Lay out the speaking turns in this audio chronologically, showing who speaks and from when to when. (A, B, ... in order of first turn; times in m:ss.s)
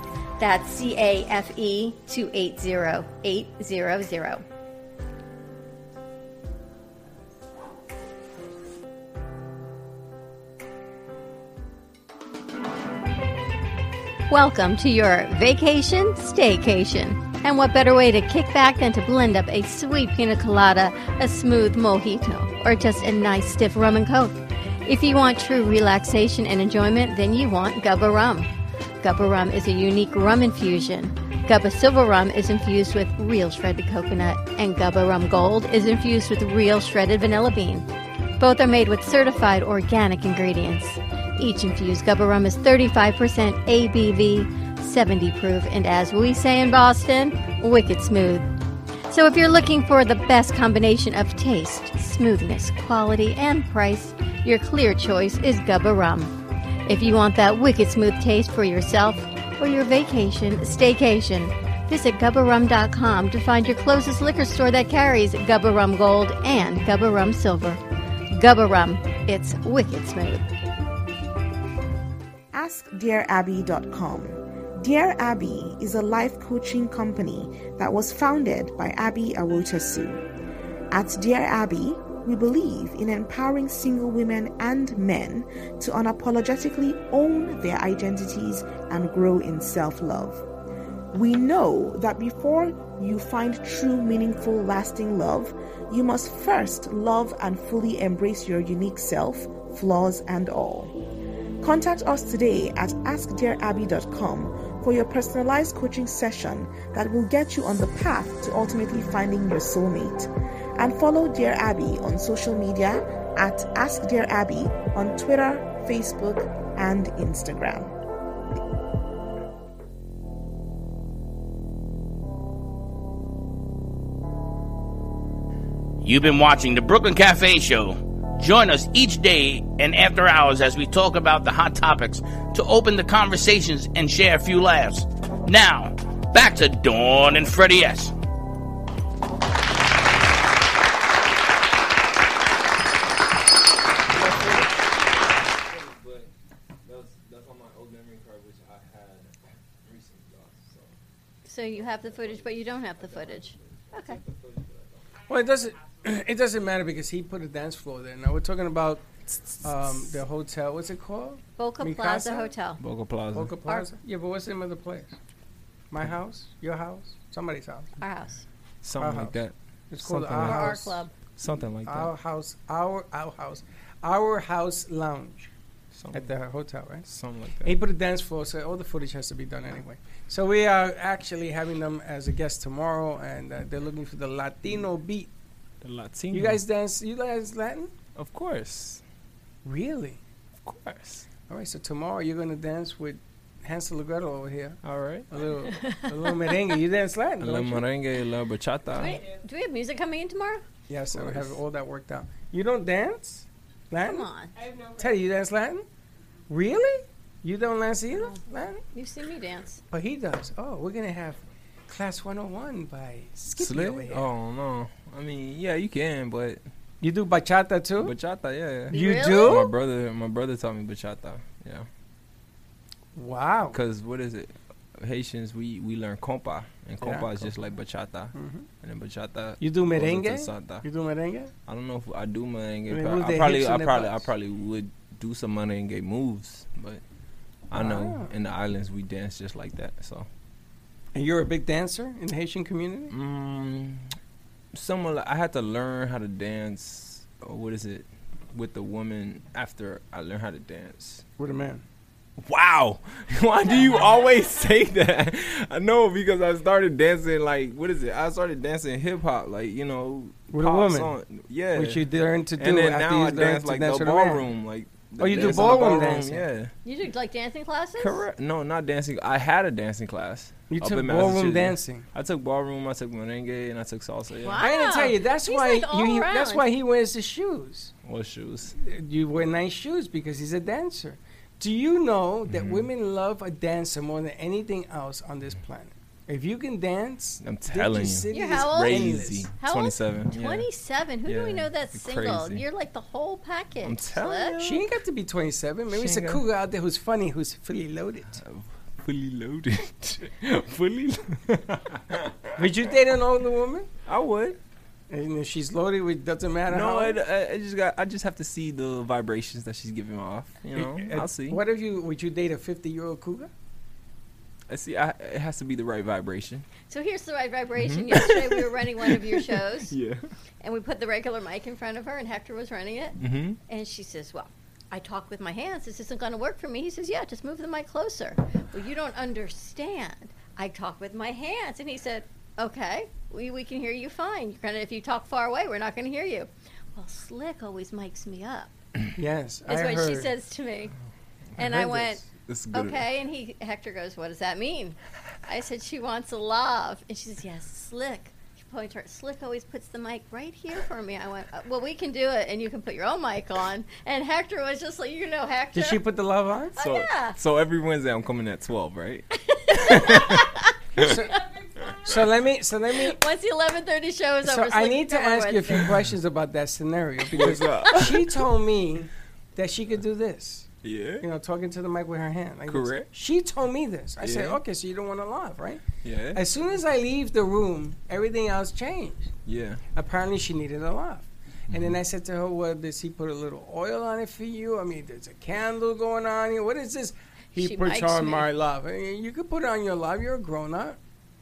0:00.4-0:04.4 A
0:14.3-0:37.9 A
0:38.4-0:48.5 A
0:49.1-0:56.4 A
0:56.9-1:07.8 A
1:08.3-1:10.6 A
1:12.5-1:20.3 B
1:20.9-1:30.4 B
1:31.1-1:41.0 B
1:41.6-1:57.9 B
2:06.0-2:18.1 C
2:25.6-2:26.3 D
2:26.8-2:31.0 D
2:31.4-2:34.2 A
2:31.6-2:35.2 D
2:35.2-2:36.2 E
2:35.3-2:39.0 F
2:39.6-2:42.5 F
2:41.6-2:42.8 A
2:42.8-2:43.6 D
2:43.3-2:45.2 F
2:45.9-2:48.0 F
2:48.0-2:48.4 A
2:48.8-2:52.1 D
2:49.0-2:49.4 F
2:49.9-2:51.0 F
2:50.3-2:51.1 A
2:51.9-2:55.5 F
2:55.9-2:56.3 D
2:56.1-2:57.1 F
2:57.1-2:57.8 D
2:57.6-3:05.3 F
3:05.8-3:06.6 D
3:06.3-3:07.9 F
3:08.2-3:09.0 D
3:09.6-3:10.2 F
3:10.6-3:11.3 D
3:11.5-3:17.9 F
3:14.8-3:15.3 D
3:15.7-3:16.5 A
3:17.4-3:19.2 D
3:18.9-3:20.6 A
3:19.0-3:19.4 E
3:20.9-3:24.3 F
3:21.1-3:21.6 D
3:24.0-3:24.5 A
3:24.5-3:25.2 E
3:25.0-3:25.9 F
3:26.5-3:28.8 F
3:28.8-3:29.8 A
3:29.9-3:34.3 F
3:33.6-3:36.6 D
3:37.0-3:38.1 F
3:38.0-3:41.9 D
3:38.9-3:39.7 A
3:38.9-3:39.7 F
3:43.2-3:43.8 F
3:43.7-3:50.9 D
3:47.0-3:47.5 F
3:48.4-3:48.7 F
3:49.6-3:51.5 F
3:51.7-3:57.0 D
3:52.9-3:54.3 F
3:57.7-4:00.3 D
3:57.7-3:58.3 F
4:01.2-4:03.1 F
4:03.1-4:04.1 D
4:04.7-4:11.2 D
4:11.4-4:11.8 F
4:12.4-4:22.0 D
4:20.5-4:21.1 F
4:21.7-4:24.5 F
4:22.6-4:26.7 D
4:25.2-4:26.5 F
4:25.3-4:25.8 A
4:26.8-4:28.2 A
4:28.0-4:34.6 D
4:30.7-4:32.1 F
4:34.4-4:36.7 A
4:34.6-4:37.9 F
4:38.0-4:38.8 D
4:38.8-4:49.5 F
4:42.5-4:42.9 D
4:47.4-4:50.7 D
4:48.3-4:54.6 A
4:51.2-4:52.6 D
4:53.8-4:54.8 D
4:54.6-4:58.4 F
4:55.9-4:56.4 D
4:58.4-5:02.5 D
5:02.6-5:03.9 F
5:04.1-5:04.6 D
5:05.1-5:07.2 F
5:06.7-5:11.6 D
5:10.8-5:13.5 F
5:14.7-5:16.7 D
5:16.9-5:19.9 A
5:17.8-5:20.2 D
5:20.6-5:38.7 A
5:23.2-5:23.6 D
5:39.2-5:40.3 F
5:39.7-5:40.9 A
5:41.6-5:43.1 D
5:41.6-5:56.0 A
5:55.7-5:56.8 F
5:56.8-5:57.4 A
5:56.8-6:01.1 D
5:59.5-6:00.7 A
6:01.0-6:01.4 F
6:01.3-6:02.1 E
6:02.0-6:03.2 F
6:03.0-6:06.0 A
6:04.4-6:10.7 F
6:07.3-6:08.4 D
6:10.8-6:11.2 D
6:11.2-6:15.8 F
6:12.7-6:13.1 D
6:14.2-6:14.6 D
6:16.0-6:16.4 D
6:16.3-6:19.3 F
6:19.5-6:19.8 D
6:20.0-6:31.0 F
6:21.7-6:22.0 D
6:27.6-6:28.5 A